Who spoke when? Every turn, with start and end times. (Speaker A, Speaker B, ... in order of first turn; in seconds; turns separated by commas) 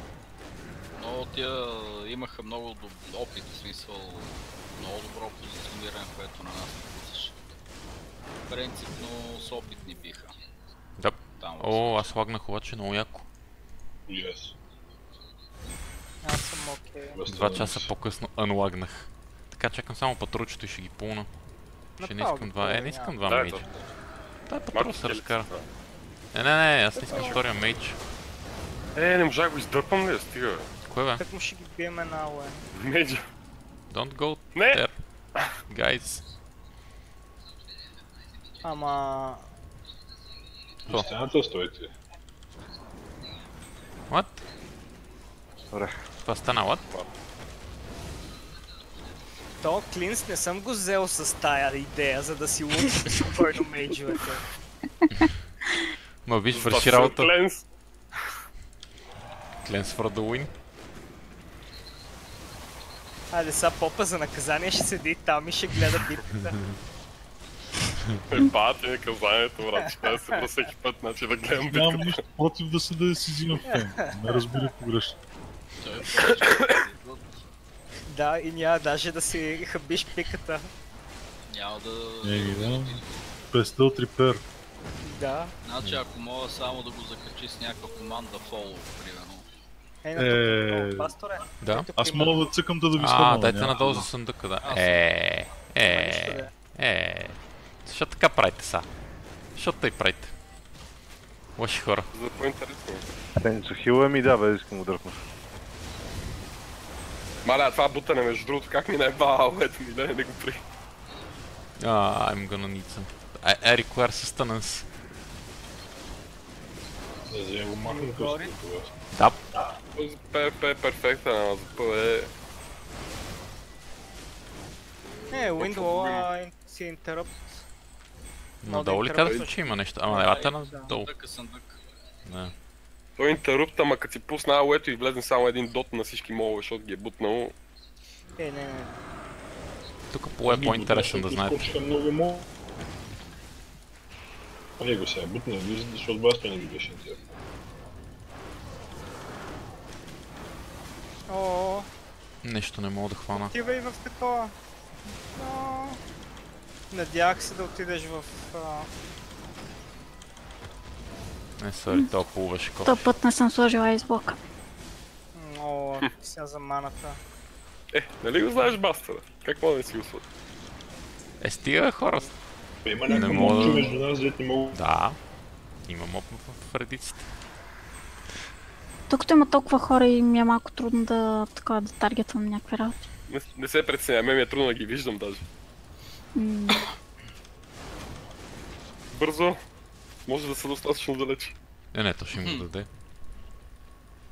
Speaker A: 0.9-7.3, Speaker A: 8.5-10.3, Speaker B: 11.0-13.2, Speaker A: 11.4-12.2, Speaker C: 14.1-14.5, Speaker D: 16.2-17.2, Speaker C: 17.1-17.9, Speaker B: 17.2-21.3, Speaker D: 22.0-23.2, Speaker B: 22.0-23.7, Speaker E: 23.2-23.8, Speaker B: 24.5-25.5, Speaker E: 24.7-25.6, Speaker B: 26.3-28.0, Speaker D: 27.1-27.4, Speaker E: 28.9-30.7, Speaker B: 30.9-31.2, Speaker D: 31.2-32.6, Speaker E: 32.7-33.2, Speaker B: 33.9-35.0, Speaker E: 34.5-34.8, Speaker B: 35.6-36.2, Speaker D: 38.6-39.5, Speaker C: 40.9-41.9, Speaker B: 44.1-44.4, Speaker F: 45.7-46.0, Speaker B: 46.2-46.9, Speaker D: 49.6-54.4, Speaker B: 56.2-57.3, Speaker E: 56.5-57.6, Speaker B: 59.6-60.5, Speaker D: 63.3-66.6, Speaker E: 68.3-72.2, Speaker D: 69.8-70.4, Speaker G: 71.6-75.2, Speaker D: 73.7-74.7, Speaker A: 75.8-77.3, Speaker E: 76.3-76.8, Speaker D: 78.1-80.7, Speaker A: 81.5-83.2, Speaker G: 82.2-84.4, Speaker D: 85.0-85.5, Speaker A: 85.6-89.4, Speaker D: 90.0-92.5, Speaker G: 90.2-91.1, Speaker B: 91.6-91.9, Speaker G: 92.0-94.1, Speaker B: 92.9-98.9, Speaker A: 94.6-95.0, Speaker D: 95.8-96.5, Speaker B: 99.5-100.3, Speaker B: 101.6-102.1, Speaker E: 102.1-103.0, Speaker F: 103.3-105.2, Speaker E: 107.4-110.6, Speaker B: 111.8-114.9, Speaker C: 117.3-118.9, Speaker D: 117.8-118.5, Speaker B: 119.1-119.4, Speaker E: 119.9-122.3, Speaker D: 125.3-127.6, Speaker E: 125.5-126.3, Speaker B: 128.6-131.1, Speaker D: 128.6-130.9, Speaker A: 130.2-131.8, Speaker B: 132.2-132.5, Speaker E: 133.2-137.5, Speaker D: 138.4-139.0, Speaker B: 140.1-141.7, Speaker C: 140.4-142.5, Speaker C: 144.8-147.2, Speaker D: 151.3-151.9, Speaker B: 152.4-153.5, Speaker D: 153.3-154.5, Speaker D: 155.3-156.0, Speaker D: 156.9-158.9, Speaker B: 161.6-163.2, Speaker H: 162.8-164.4, Speaker D: 165.3-167.2, Speaker E: 167.9-170.2, Speaker B: 171.4-172.3, Speaker C: 172.8-174.8, Speaker B: 173.1-173.9, Speaker H: 173.1-173.9, Speaker B: 174.7-175.2, Speaker B: 175.8-177.3, Speaker H: 179.1-183.0, Speaker E: 183.3-185.4, Speaker H: 186.3-186.8, Speaker E: 189.1-189.6, Speaker E: 190.3-191.5, Speaker B: 191.9-192.9, Speaker A: 192.3-192.6